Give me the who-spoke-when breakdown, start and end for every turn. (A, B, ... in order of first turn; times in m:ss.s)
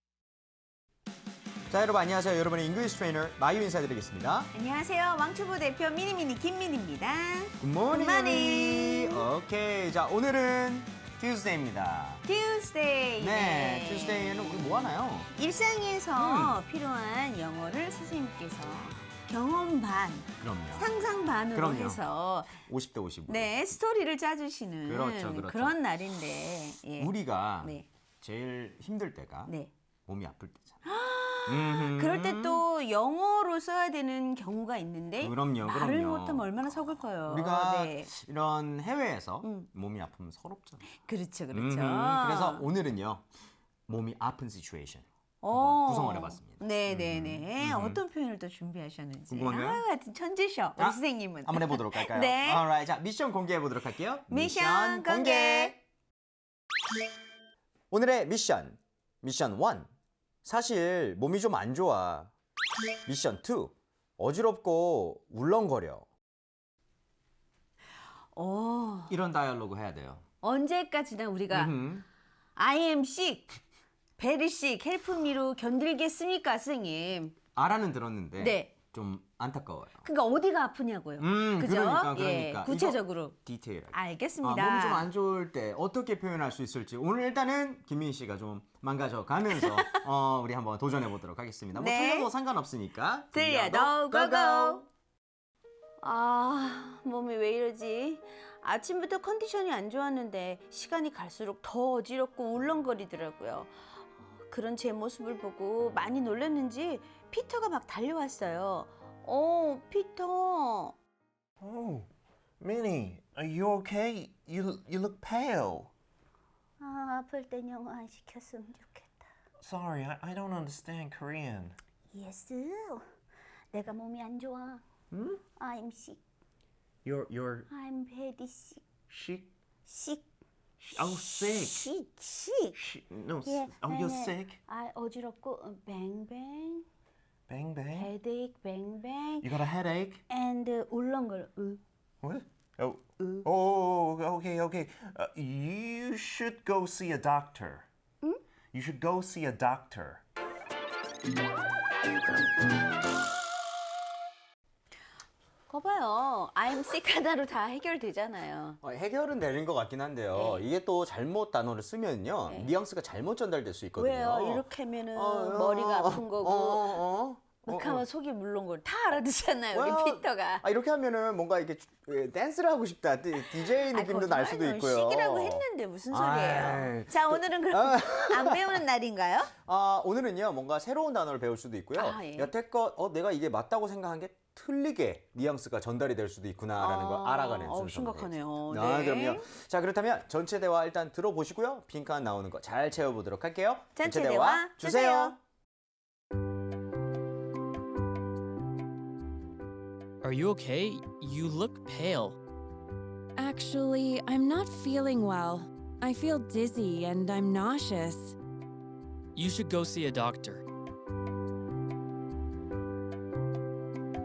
0:01.7-0:04.5 A
0:04.5-0:09.3 B
0:07.6-0:12.2 A
0:12.2-0:14.6 B
0:13.2-0:15.3 A
0:15.3-0:22.6 B
0:16.2-0:16.6 A
0:20.4-0:20.9 A
0:21.5-0:22.0 A
0:22.6-0:23.5 A
0:23.3-0:27.9 B
0:24.9-0:25.8 A
0:27.0-0:29.5 A
0:30.1-0:30.8 A
0:30.8-0:38.1 B
0:31.5-0:32.6 A
0:35.2-0:40.8 A
0:40.8-0:42.7 B
0:41.5-0:43.3 A
0:43.9-0:48.0 A
0:45.4-0:52.6 B
0:49.3-0:49.8 A
0:50.8-0:55.8 A
0:54.3-0:55.8 B
0:57.9-0:59.9 A
1:00.4-1:02.3 A
1:03.1-1:06.1 A
1:08.3-1:09.1 B
1:09.1-1:10.2 A
1:10.4-1:11.7 B
1:11.5-1:12.1 A
1:12.6-1:13.6 B
1:14.2-1:17.4 B
1:17.6-1:20.0 A
1:18.4-1:18.7 B
1:20.0-1:23.4 B
1:21.2-1:34.8 A
1:23.9-1:25.1 B
1:29.5-1:30.0 B
1:31.7-1:32.3 B
1:33.3-1:34.8 B
1:36.0-1:51.0 B
1:51.6-1:52.1 C
1:52.6-1:55.9 C
1:56.8-1:59.2 B
1:59.6-2:01.8 C
2:02.1-2:03.0 B
2:03.7-2:04.8 B
2:05.1-2:05.4 C
2:05.6-2:06.2 B
2:07.0-2:07.7 C
2:07.7-2:08.9 B
2:09.1-2:09.5 C
2:09.9-2:10.3 B
2:10.8-2:11.9 C
2:11.0-2:12.8 B
2:12.8-2:14.6 C
2:13.4-2:16.9 B
2:17.5-2:18.1 C
2:17.9-2:19.5 B
2:19.4-2:20.2 C
2:20.3-2:21.8 B
2:22.2-2:27.8 C
2:28.7-2:30.2 C
2:35.7-2:38.8 B
2:38.8-2:48.0 A
2:40.3-2:40.7 B
2:44.0-2:47.0 B
2:47.7-2:50.6 B
2:49.7-2:58.8 A
2:53.5-2:59.5 B
2:59.6-3:15.4 A
3:01.9-3:02.5 B
3:06.8-3:09.5 B
3:14.0-3:15.4 B
3:20.2-3:22.4 D
3:23.4-3:28.4 E
3:29.4-3:30.6 D